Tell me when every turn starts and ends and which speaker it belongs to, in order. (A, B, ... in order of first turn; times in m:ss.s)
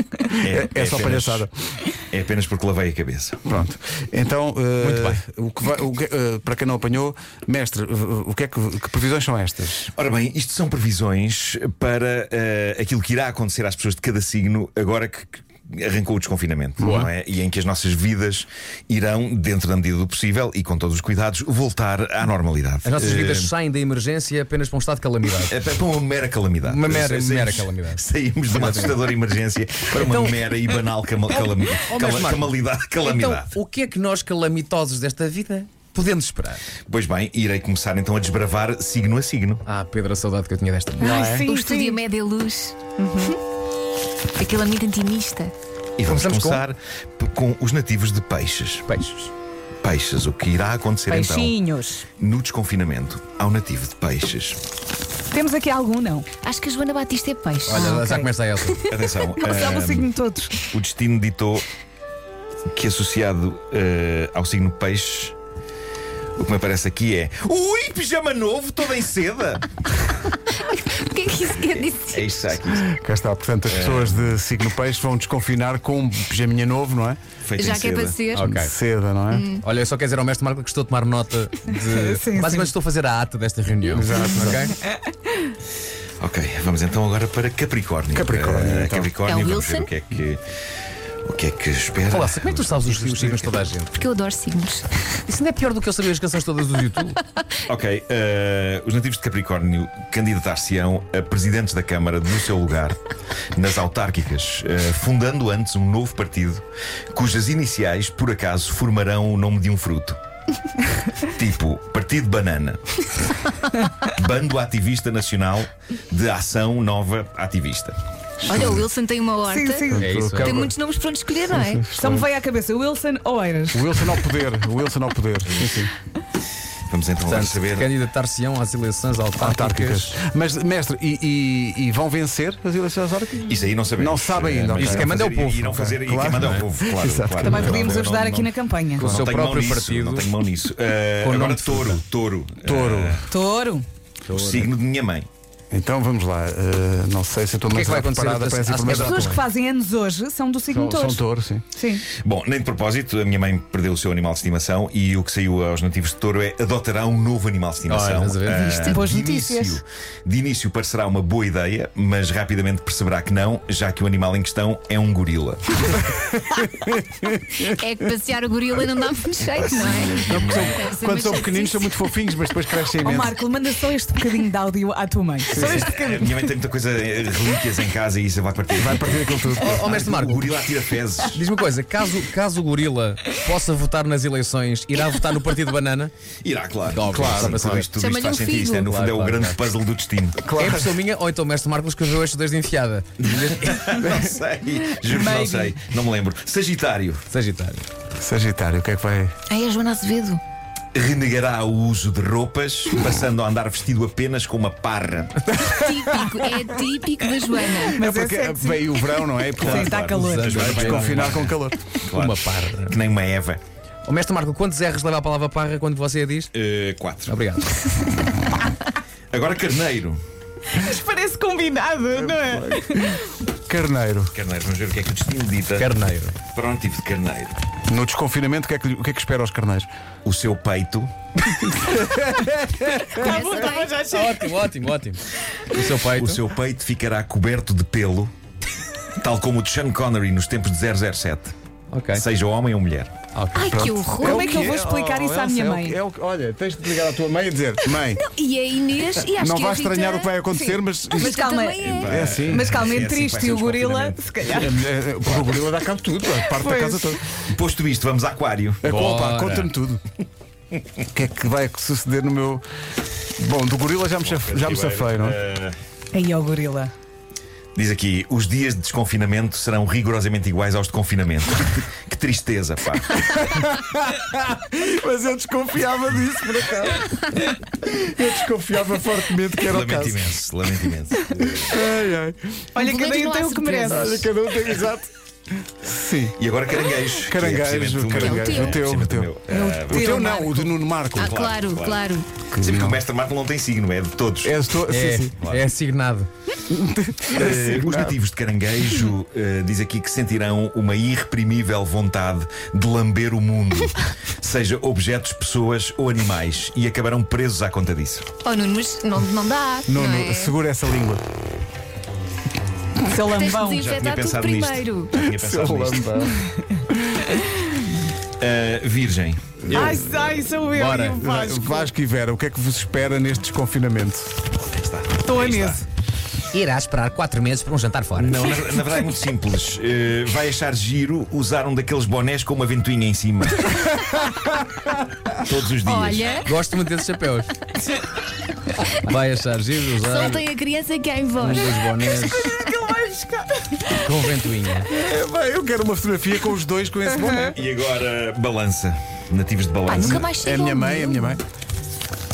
0:00.4-0:01.5 A
0:00.4-0:01.5 B
0:02.0-0:03.4 A
0:03.4-0:09.9 B
0:04.8-0:05.2 C
0:09.9-0:23.5 A
0:16.8-0:17.1 C
0:22.8-0:25.6 C
0:25.5-0:33.5 A
0:26.6-0:29.1 C
0:29.9-0:36.7 C
0:36.8-0:39.6 A
0:39.6-0:41.5 C
0:41.0-0:43.3 D
0:41.0-0:42.0 E
0:42.9-0:43.4 E
0:44.4-0:45.5 D
0:46.0-0:48.9 A
0:46.1-0:46.6 C
0:48.9-0:49.3 C
0:49.8-0:51.6 A
0:51.1-0:52.0 E
0:52.2-0:54.6 A
0:55.3-0:56.3 E
0:56.4-0:59.0 D
0:57.6-0:58.8 C
0:58.9-1:01.7 A
0:59.1-1:00.6 E
1:02.7-1:05.3 A
1:06.4-1:09.8 A
1:10.3-1:12.3 D
1:11.5-1:12.8 A
1:12.7-1:17.2 B
1:13.7-1:14.4 A
1:17.4-1:18.2 A
1:17.6-1:18.5 D
1:18.3-1:18.7 C
1:18.4-1:19.5 B
1:19.3-1:19.6 D
1:19.6-1:24.8 C
1:21.9-1:22.7 E
1:23.9-1:24.7 B
1:26.2-1:30.4 A
1:28.1-1:29.1 B
1:29.2-1:29.9 D
1:31.2-1:32.8 A
1:32.1-1:34.0 C
1:32.8-1:33.6 B
1:34.0-1:34.9 D
1:35.3-1:37.2 C
1:37.7-1:43.0 A
1:43.5-1:50.2 A
1:51.2-1:53.0 A
1:54.0-1:58.0 A
1:58.4-1:58.8 B
1:58.4-2:01.9 D
1:59.4-2:00.1 E
1:59.9-2:00.7 B
1:59.9-2:00.6 C
2:01.5-2:02.3 B
2:01.9-2:04.1 E
2:03.7-2:05.9 B
2:06.9-2:07.9 A
2:07.2-2:10.1 C
2:09.4-2:17.9 B
2:13.4-2:23.3 A
2:14.8-2:15.8 C
2:16.3-2:16.6 C
2:17.4-2:19.1 E
2:19.0-2:20.3 C
2:21.2-2:22.0 C
2:22.6-2:23.3 B
2:23.3-2:23.8 E
2:24.3-2:24.7 C
2:24.3-2:25.3 A
2:25.7-2:29.4 B
2:27.7-2:29.5 C
2:29.0-2:32.0 E
2:30.7-2:31.6 B
2:32.1-2:45.8 A
2:37.9-2:38.8 C
2:38.7-2:39.1 D
2:38.9-2:39.8 E
2:46.0-2:47.8 B
2:47.6-2:51.9 D
2:49.5-2:50.8 A
2:50.2-2:53.4 B
2:53.0-2:56.5 E
2:55.5-3:01.4 A
2:55.5-2:55.9 B
2:58.7-2:59.8 B
2:59.6-3:00.5 C
3:01.3-3:06.1 C
3:06.4-3:10.4 A
3:06.9-3:07.9 C
3:07.1-3:07.9 B
3:08.0-3:08.9 D
3:08.8-3:09.6 C
3:10.4-3:11.0 B
3:10.6-3:13.8 C
3:13.2-3:17.3 A
3:15.1-3:15.8 E
3:17.3-3:17.8 C
3:18.2-3:19.3 B
3:19.5-3:20.4 D
3:20.9-3:25.5 A
3:25.5-3:26.5 B
3:25.7-3:28.0 D
3:27.8-3:30.6 E
3:27.9-3:31.8 B
3:29.6-3:33.6 A
3:30.2-3:31.5 C
3:32.1-3:33.0 C
3:34.0-3:36.5 C
3:36.5-3:37.4 A
3:37.3-3:37.9 C
3:39.3-3:40.2 A
3:40.7-3:43.2 E
3:42.2-3:44.3 B
3:44.3-3:45.9 A
3:45.8-3:46.4 C
3:46.5-3:47.6 A
3:47.9-3:49.9 B
3:50.2-3:51.1 A
3:51.5-3:53.6 B
3:53.1-3:54.4 D
3:53.2-3:54.1 E
3:54.1-3:56.4 C
3:56.1-3:58.3 A
3:59.2-4:01.5 A
4:01.9-4:02.2 C
4:02.1-4:03.1 A
4:03.3-4:03.8 C
4:03.5-4:04.7 D
4:03.7-4:08.2 B
4:04.1-4:06.0 E
4:08.0-4:12.3 D
4:09.4-4:11.4 B
4:10.5-4:14.8 E
4:11.8-4:14.2 A
4:12.0-4:12.7 B
4:14.5-4:17.2 B
4:15.2-4:15.5 A
4:16.4-4:17.2 E
4:17.4-4:18.8 A
4:18.8-4:20.0 B
4:18.8-4:19.7 C
4:21.1-4:22.6 B
4:23.4-4:25.4 B
4:24.2-4:25.7 A
4:26.1-4:26.9 E
4:27.8-4:33.2 A
4:33.1-4:40.2 B
4:39.7-4:41.9 A
4:41.6-4:42.7 B
4:42.7-4:44.2 D
4:42.7-4:44.3 E
4:43.8-4:45.1 B
4:45.8-4:46.4 B
4:46.4-4:50.4 A
4:47.2-4:49.3 B
4:48.1-4:48.8 D
4:49.5-4:50.8 E
4:49.9-4:51.4 B
4:51.1-4:52.3 D
4:51.1-4:54.5 A
4:52.5-4:53.0 B
4:54.4-4:55.3 B
4:54.9-4:56.3 C
4:55.4-4:55.6 A
4:56.7-4:58.2 B
4:57.3-5:08.3 A
5:08.4-5:10.5 D
5:09.9-5:11.2 B
5:13.0-5:13.9 E
5:13.1-5:15.1 D
5:13.7-5:16.2 A
5:15.2-5:17.3 B
5:18.4-5:19.6 A
5:19.6-5:20.4 B
5:19.7-5:21.9 E
5:20.7-5:21.2 C
5:21.0-5:24.4 B
5:24.5-5:25.8 A
5:25.2-5:25.8 E
5:26.5-5:28.4 C
5:28.2-5:34.0 A
5:35.3-5:36.4 A
5:35.8-5:36.5 D
5:36.4-5:37.5 C
5:38.8-5:40.4 C
5:40.0-5:43.1 D
5:41.4-5:42.5 C
5:42.5-5:43.9 E
5:43.9-5:44.9 C
5:44.9-5:47.6 B
5:47.4-5:50.3 A
5:49.9-5:51.4 D
5:50.0-5:51.4 B